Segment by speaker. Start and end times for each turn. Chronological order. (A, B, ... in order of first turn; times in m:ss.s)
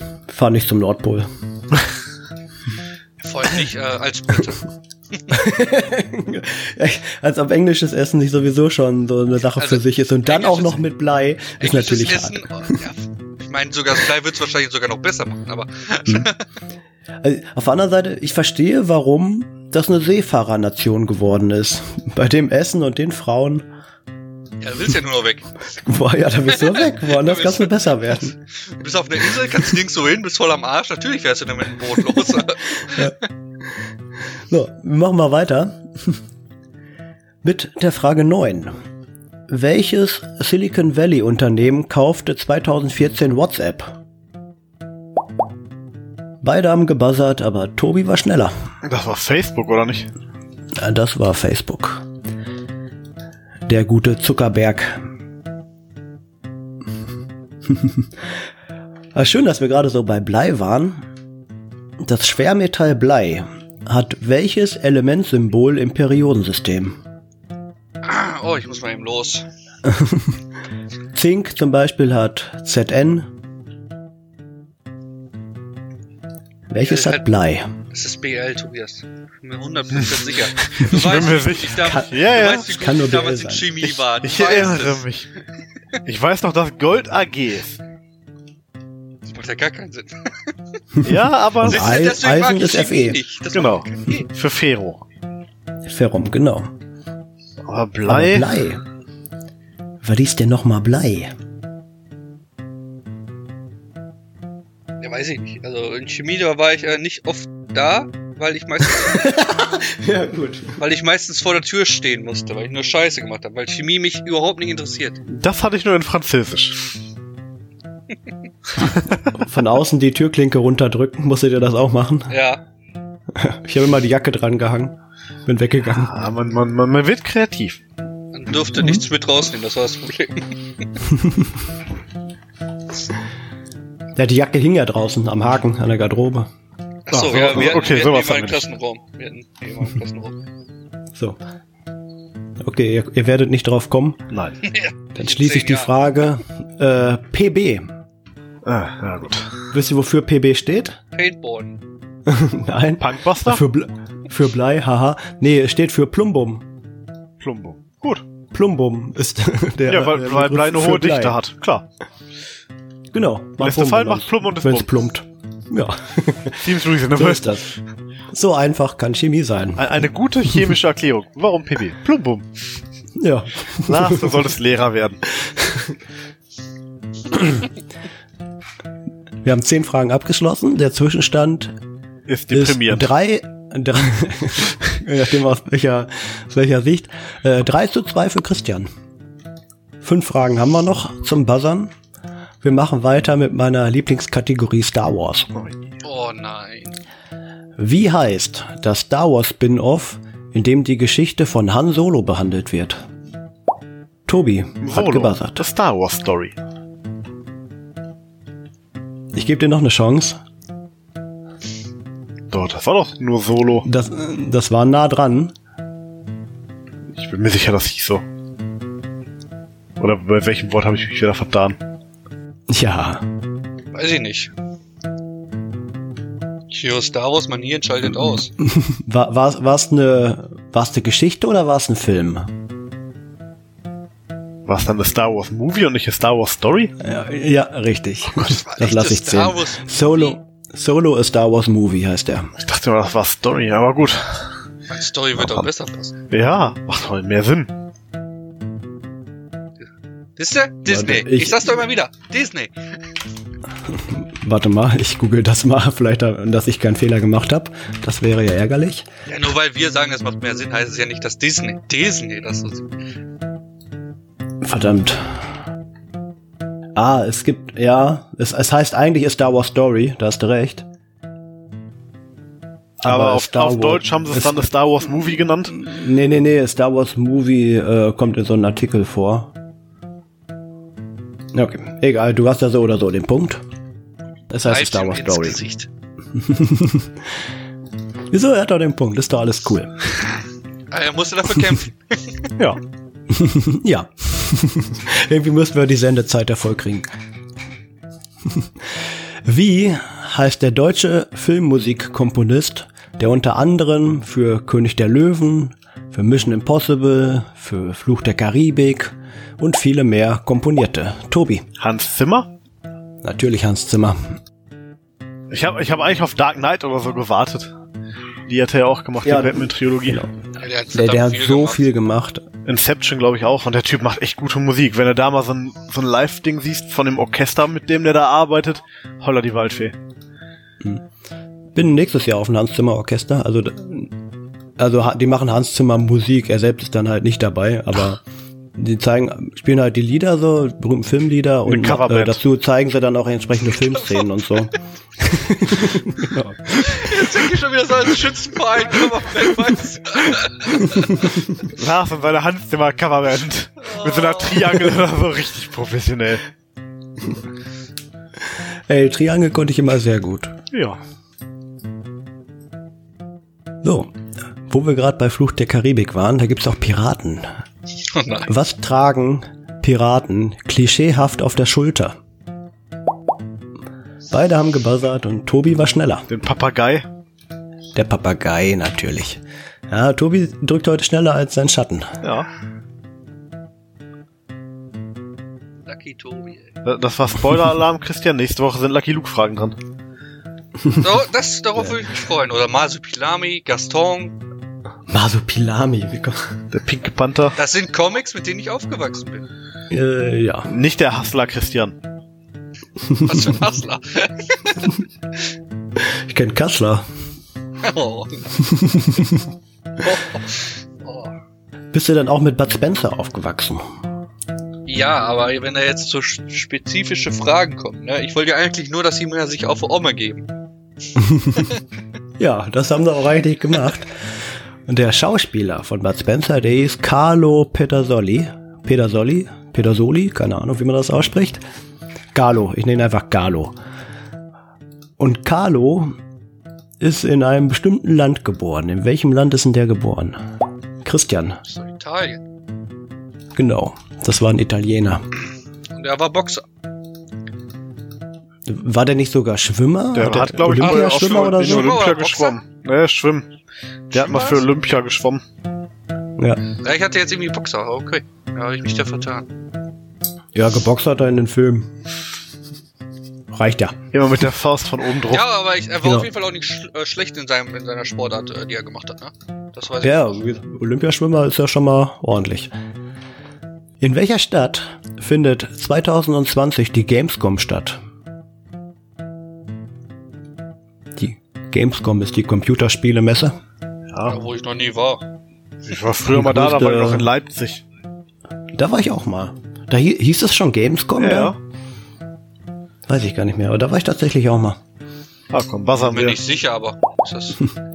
0:00.3-0:01.3 A
0:03.2-0:05.5 B
0:05.3-0:12.8 A
0:09.6-0:10.8 B
0:11.6-0:16.4 B
0:17.2-0:23.7 A
0:24.6-0:25.5 B
0:25.7-0:28.3 A
0:26.5-0:33.2 B
0:32.4-0:33.8 A
0:34.5-0:36.2 A
0:37.4-0:38.7 A
0:39.5-0:43.9 A
0:46.4-0:48.5 A
0:48.8-0:50.1 C
0:50.8-0:52.0 A
0:53.7-0:55.0 A
0:57.7-0:58.1 A
0:59.1-1:01.0 A
1:02.0-1:07.0 A
1:08.0-1:09.4 B
1:09.8-1:10.4 A
1:11.1-1:13.3 A
1:16.7-1:17.7 A
1:16.8-1:17.2 B
1:17.9-1:25.1 B
1:20.0-1:22.7 C
1:22.6-1:23.9 A
1:24.2-1:25.3 C
1:26.0-1:27.8 C
1:29.2-1:30.5 B
1:31.0-1:33.2 A
1:31.0-1:32.0 C
1:31.6-1:34.3 B
1:33.5-1:35.0 C
1:35.8-1:36.7 A
1:37.6-1:38.5 C
1:38.1-1:38.8 A
1:40.0-1:41.3 A
1:45.0-1:49.3 B
1:49.0-1:50.8 A
1:50.8-1:55.2 B
1:55.3-1:56.9 C
1:58.8-1:59.2 C
1:59.4-2:02.3 A
2:02.3-2:02.6 B
2:03.3-2:04.9 A
2:05.4-2:06.2 A
2:05.9-2:07.8 C
2:08.3-2:10.8 B
2:14.2-2:16.5 A
2:17.1-2:20.4 B
2:17.1-2:18.7 C
2:22.6-2:24.2 A
2:24.3-2:24.6 C
2:24.6-2:25.9 B
2:25.1-2:27.8 A
2:28.6-2:29.5 C
2:29.7-2:31.0 A
2:31.1-2:31.8 B
2:32.2-2:36.6 A
2:33.0-2:33.6 C
2:37.4-2:38.2 C
2:38.5-2:41.4 A
2:39.9-2:41.8 C
2:43.1-2:47.7 A
2:43.6-2:44.9 C
2:46.6-2:47.7 C
2:48.3-2:49.9 A
2:49.8-2:52.5 C
2:53.2-2:54.3 A
2:53.8-2:55.2 C
2:55.4-2:56.0 A
2:57.3-2:57.6 A
2:59.4-3:01.7 A
3:02.3-3:03.1 C
3:02.5-3:08.9 A
3:10.0-3:11.9 A
3:12.6-3:15.5 A
3:16.0-3:17.0 B
3:17.8-3:23.0 A
3:24.3-3:25.6 A
3:24.8-3:26.5 C
3:29.3-3:30.4 A
3:32.5-3:33.8 C
3:33.8-3:35.5 A
3:37.1-3:38.2 C
3:40.0-3:41.8 C
3:42.7-3:43.2 A
3:43.9-3:44.5 B
3:46.7-3:48.5 B
3:48.6-3:52.5 A
3:54.6-3:56.9 C
3:57.0-4:02.5 A
3:58.3-4:00.4 B
4:02.6-4:04.4 C
4:04.9-4:06.1 B
4:05.4-4:05.7 A
4:06.3-4:07.7 C
4:10.4-4:12.7 B
4:10.8-4:11.8 A
4:13.9-4:19.0 A
4:19.3-4:22.9 B
4:24.6-4:25.4 A
4:26.9-4:30.8 A
4:33.0-4:34.6 A
4:33.0-4:35.8 C
4:35.7-4:39.5 A
4:41.5-4:43.6 A
4:44.5-4:45.6 A
4:44.6-4:45.9 B
4:46.3-4:47.2 A
4:48.3-4:50.1 A
4:50.9-4:52.5 B
4:53.3-4:57.1 A
4:58.4-5:11.6 A
5:11.8-5:12.5 C
5:13.2-5:14.4 A
5:15.5-5:17.7 C
5:18.5-5:20.2 C
5:19.2-5:20.3 A
5:20.6-5:21.9 B
5:20.9-5:22.4 A
5:22.6-5:29.9 C
5:31.7-5:34.1 A
5:34.8-5:38.2 A
5:38.7-5:47.1 A
5:41.6-5:42.4 C
5:46.7-5:51.4 B
5:51.6-5:56.4 C
5:53.8-5:54.8 B
5:58.9-6:00.5 A
6:00.7-6:01.0 C
6:03.8-6:04.1 A
6:04.7-6:07.5 A
6:08.1-6:08.5 B
6:08.5-6:12.2 A
6:14.3-6:16.3 A
6:16.3-6:17.0 C
6:17.9-6:22.2 A
6:22.2-6:22.5 C
6:25.8-6:26.7 B
6:26.8-6:29.8 C
6:31.0-6:34.4 B
6:35.1-6:36.5 A
6:36.7-6:37.6 C
6:37.6-6:39.5 B
6:39.9-6:40.7 A
6:40.7-6:41.9 C
6:43.0-6:43.6 A
6:43.2-6:45.0 B
6:46.0-6:47.0 A
6:47.8-6:48.5 B
6:48.6-6:49.4 A
6:50.0-6:51.3 B
6:51.9-6:53.8 A
6:54.8-7:00.5 B
7:01.2-7:01.6 A
7:02.4-7:04.2 A
7:04.9-7:11.6 A
7:12.3-7:13.8 A
7:15.2-7:16.1 A
7:17.0-7:20.4 A
7:21.0-7:21.6 A
7:21.6-7:22.4 B
7:23.5-7:25.2 A
7:25.9-7:26.6 B
7:28.6-7:32.0 A
7:30.1-7:33.5 C
7:30.8-7:32.6 B
7:34.1-7:35.4 C
7:34.1-7:34.6 B
7:36.8-7:39.5 B
7:40.5-7:41.9 A
7:43.5-7:44.0 A
7:44.1-7:45.4 C
7:45.3-7:50.4 B
7:46.0-7:46.3 A
7:50.0-7:52.7 A
7:54.0-7:58.0 A
8:01.2-8:03.5 A
8:04.1-8:04.4 C
8:04.2-8:05.2 B
8:05.8-8:07.8 C
8:06.3-8:07.3 A
8:08.7-8:11.5 A
8:11.2-8:11.6 C
8:13.1-8:14.8 A
8:15.5-8:16.4 C
8:16.0-8:17.6 B